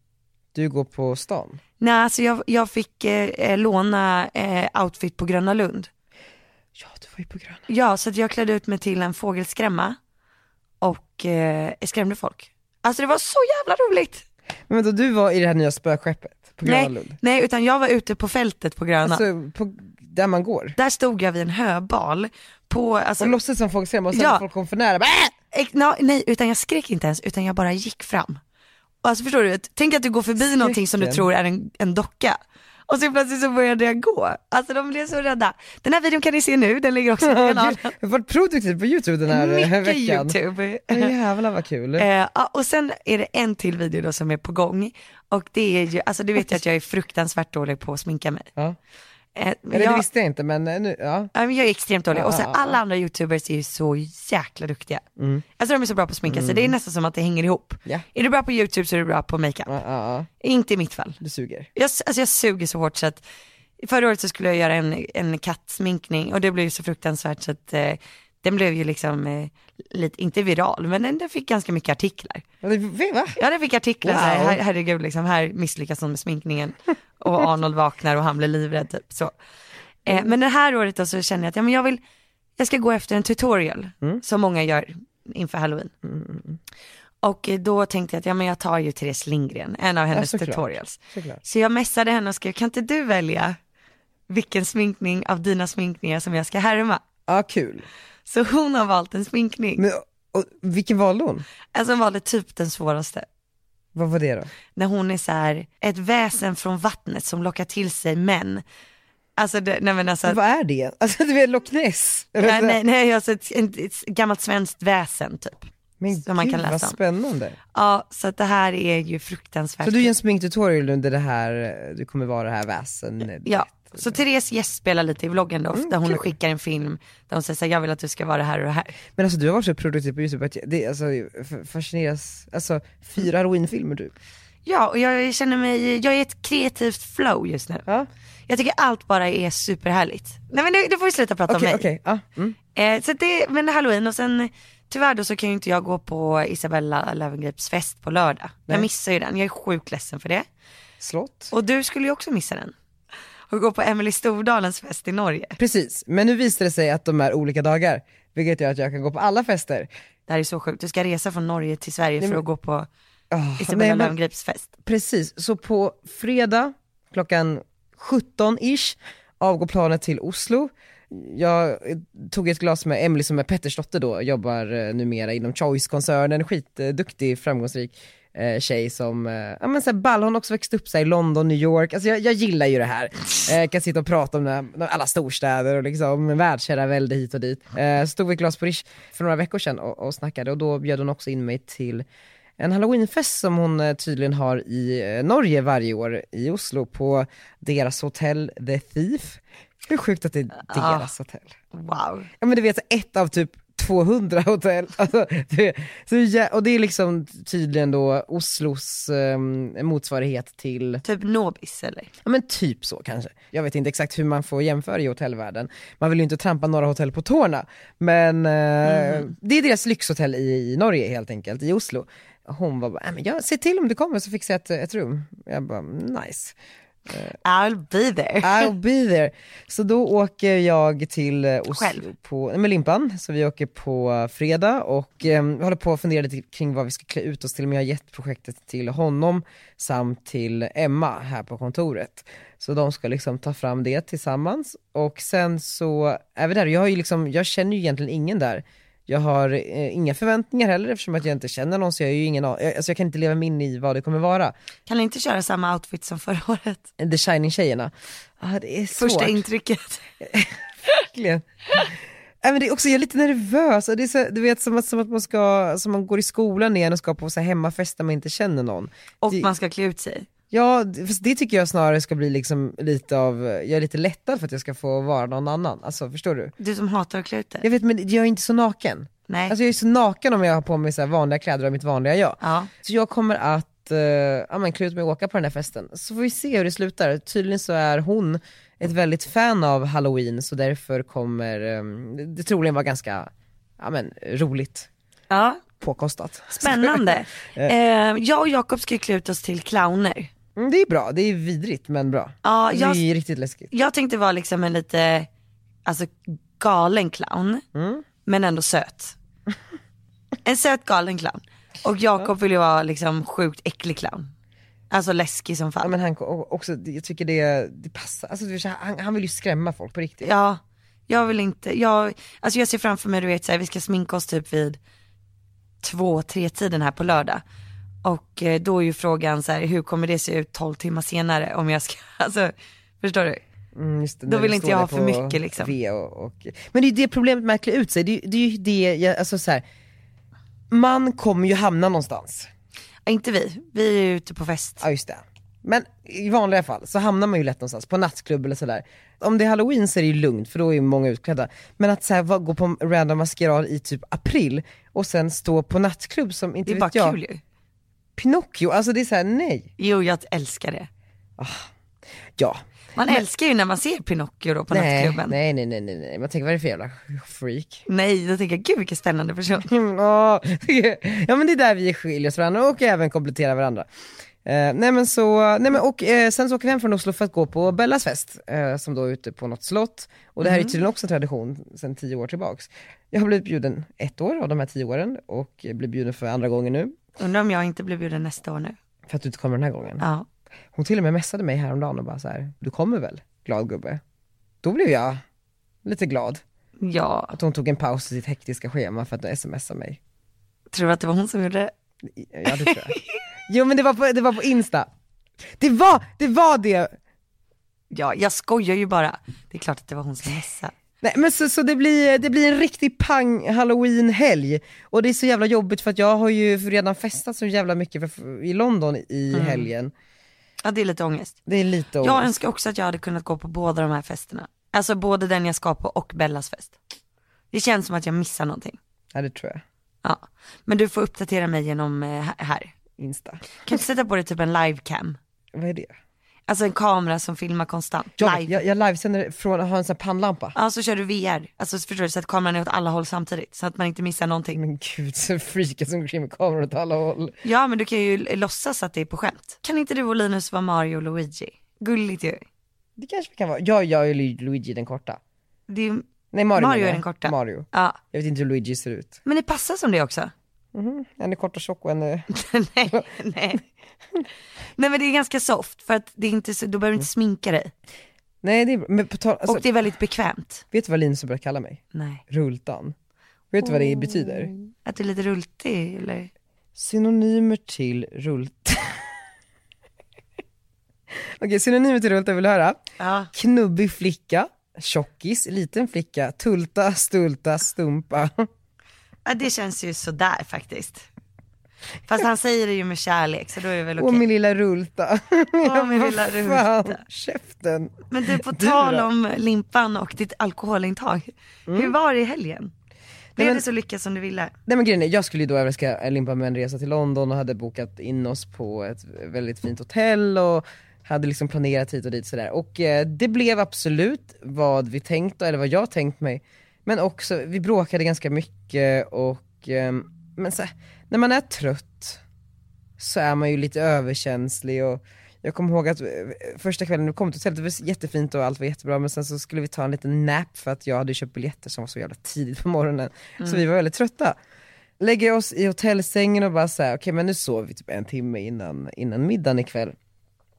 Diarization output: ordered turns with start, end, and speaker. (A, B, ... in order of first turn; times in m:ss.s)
0:00.5-0:01.6 A
0:01.8-0:05.9 B
0:06.8-0:07.6 A
0:07.7-0:10.0 B
0:10.8-0:14.2 B
0:14.7-0:17.2 A
0:16.6-0:19.2 B
0:19.0-0:20.8 A
0:20.8-0:23.4 B
0:23.2-0:25.3 A
0:24.1-0:24.4 B
0:25.5-0:28.4 B
0:29.0-0:37.9 B
0:30.4-0:31.2 A
0:37.2-0:40.4 A
0:39.3-0:41.1 B
0:40.9-0:42.1 A
0:42.0-0:48.5 B
0:49.4-0:50.0 B
0:49.7-0:51.3 A
0:51.3-0:55.0 B
0:52.1-0:52.7 A
0:55.2-0:55.4 A
0:55.6-0:59.7 B
0:56.3-0:56.7 A
0:59.7-1:00.3 A
1:00.4-1:01.2 B
1:01.2-1:01.7 A
1:01.7-1:03.2 B
1:03.8-1:12.4 B
1:12.6-1:13.4 A
1:13.4-1:19.3 B
1:14.0-1:14.6 A
1:20.0-1:22.0 B
1:22.6-1:25.9 B
1:26.0-1:26.6 A
1:27.2-1:33.6 B
1:30.1-1:31.4 A
1:34.3-1:37.0 B
1:37.3-1:37.9 A
1:38.3-1:39.8 B
1:39.8-1:41.4 A
1:41.7-1:43.3 B
1:43.9-1:44.5 A
1:44.7-1:48.6 B
1:49.4-1:50.4 B
1:50.2-1:52.8 A
1:52.4-1:57.0 B
1:56.0-1:57.6 A
1:57.7-2:00.1 B
1:59.8-2:04.2 A
2:03.4-2:09.0 B
2:05.7-2:06.2 A
2:09.2-2:14.1 A
2:14.6-2:17.8 B
2:18.5-2:21.8 B
2:21.5-2:22.6 A
2:22.7-2:30.5 B
2:31.0-2:31.5 A
2:31.5-2:32.7 B
2:33.5-2:35.6 B
2:35.6-2:39.9 A
2:40.3-2:42.9 B
2:43.3-2:44.1 A
2:43.6-2:44.7 B
2:44.8-3:12.0 A
3:12.6-3:21.5 A
3:20.7-3:21.1 B
3:21.7-3:22.3 B
3:22.4-3:31.0 A
3:31.0-3:32.1 B
3:32.2-3:46.5 A
3:38.8-3:39.3 B
3:47.1-3:47.4 A
3:47.4-3:48.7 B
3:48.4-4:14.5 A
3:51.7-3:52.1 B
4:14.9-4:16.8 B
4:17.0-4:19.4 A
4:18.9-4:20.0 B
4:20.2-4:21.9 A
4:22.4-4:29.5 A
4:29.2-4:30.3 B
4:30.5-4:36.5 A
4:36.6-4:37.6 B
4:37.6-4:54.9 A
4:39.3-4:39.5 B
4:42.4-4:42.7 B
4:55.3-4:55.6 B
4:55.8-4:57.7 A
4:56.5-5:00.3 B
5:00.6-5:03.7 A
5:02.4-5:03.0 B
5:03.7-5:05.3 B
5:05.8-5:07.6 B
5:07.7-5:08.0 A
5:08.2-5:09.2 B
5:10.4-5:14.3 B
5:14.9-5:15.9 B
5:15.8-5:20.3 A
5:20.2-5:24.8 B
5:25.8-5:27.4 B
5:28.0-5:33.4 B
5:33.7-5:39.6 A
5:34.3-5:35.7 B
5:40.7-5:42.5 A
5:43.0-5:44.8 B
5:44.8-5:57.2 A
5:56.6-5:57.4 B
5:58.2-5:59.7 A
5:59.8-6:00.9 B
6:01.4-6:01.7 A
6:02.4-6:03.2 A
6:03.0-6:05.4 B
6:04.7-6:07.8 A
6:07.9-6:09.7 B
6:09.6-6:13.8 A
6:14.4-6:27.0 A
6:20.4-6:20.8 B
6:27.2-6:28.8 B
6:29.1-6:30.0 A
6:30.0-6:30.3 B
6:30.7-6:34.0 A
6:34.6-6:35.2 A
6:35.8-6:36.4 A
6:36.8-6:37.3 B
6:37.3-6:40.0 A
6:40.7-6:41.7 B
6:42.2-6:44.9 A
6:42.5-6:43.0 B
6:45.6-6:46.9 A
6:47.9-6:50.7 B
6:51.0-6:59.9 A
6:59.3-6:59.7 B
7:00.6-7:01.4 B
7:01.4-7:02.4 A
7:02.0-7:06.8 B
7:07.5-7:08.8 B
7:09.1-7:09.6 A
7:10.0-7:12.7 B
7:13.0-7:13.7 A
7:13.6-7:15.2 B
7:15.5-7:15.9 A
7:16.5-7:18.6 B
7:18.2-7:20.5 A
7:20.5-7:24.6 B
7:24.5-7:27.3 A
7:27.4-7:32.4 B
7:33.0-7:35.2 A
7:35.7-7:38.0 B
7:36.3-7:39.2 A
7:39.2-7:40.3 B
7:40.7-7:42.3 A
7:42.3-7:43.6 B
7:44.8-7:47.7 B
7:48.4-7:49.6 A
7:49.5-7:50.6 B
7:50.7-7:52.9 A
7:51.9-7:52.2 B
7:53.5-7:54.5 A
7:53.6-7:56.3 B
7:56.8-7:59.0 A
8:01.4-8:02.8 A
8:03.0-8:03.3 B
8:03.3-8:08.5 A
8:09.2-8:11.0 B
8:12.1-8:14.2 B
8:14.0-8:19.0 A
8:15.6-8:17.0 B
8:18.1-8:22.7 B
8:21.7-8:21.9 A
8:23.4-8:24.5 B
8:23.4-8:23.6 A
8:24.6-8:42.2 A
8:43.0-8:54.4 A
8:55.0-8:59.9 A